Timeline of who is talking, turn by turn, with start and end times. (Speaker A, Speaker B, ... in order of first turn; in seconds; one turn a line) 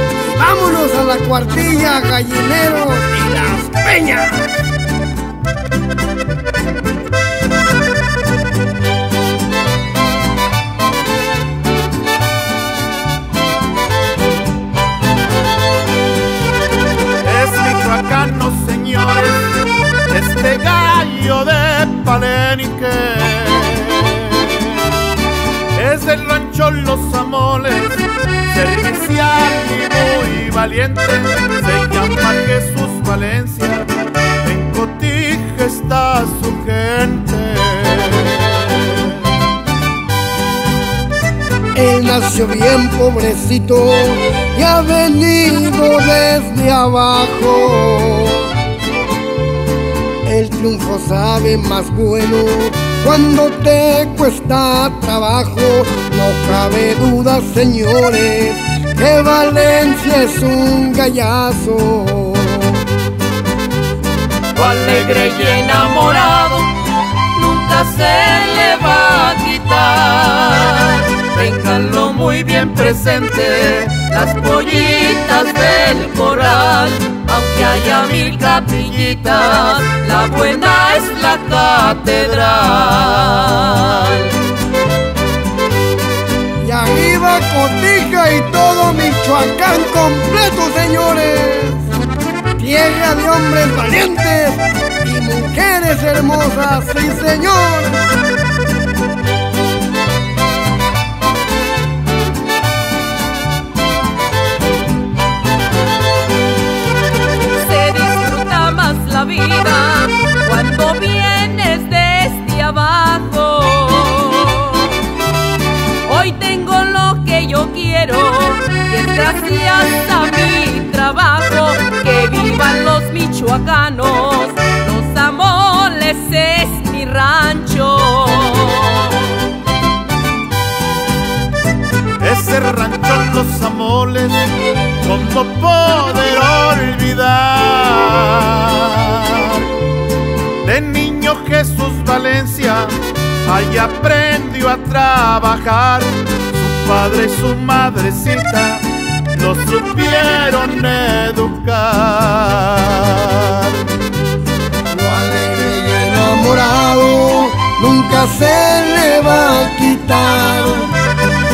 Speaker A: 0.2-4.5
Speaker B: 17.2-19.6
Speaker B: 20.1-25.0
Speaker B: 25.7-33.9
Speaker B: 34.4-39.3
Speaker A: 41.7-48.5
Speaker A: 50.2-62.8
Speaker C: 64.5-84.4
Speaker A: 86.6-91.9
Speaker A: 92.5-98.0
Speaker C: 107.5-115.1
Speaker C: 116.0-129.4
Speaker B: 132.2-134.4
Speaker B: 135.0-139.7
Speaker B: 140.6-153.9
Speaker A: 154.9-160.9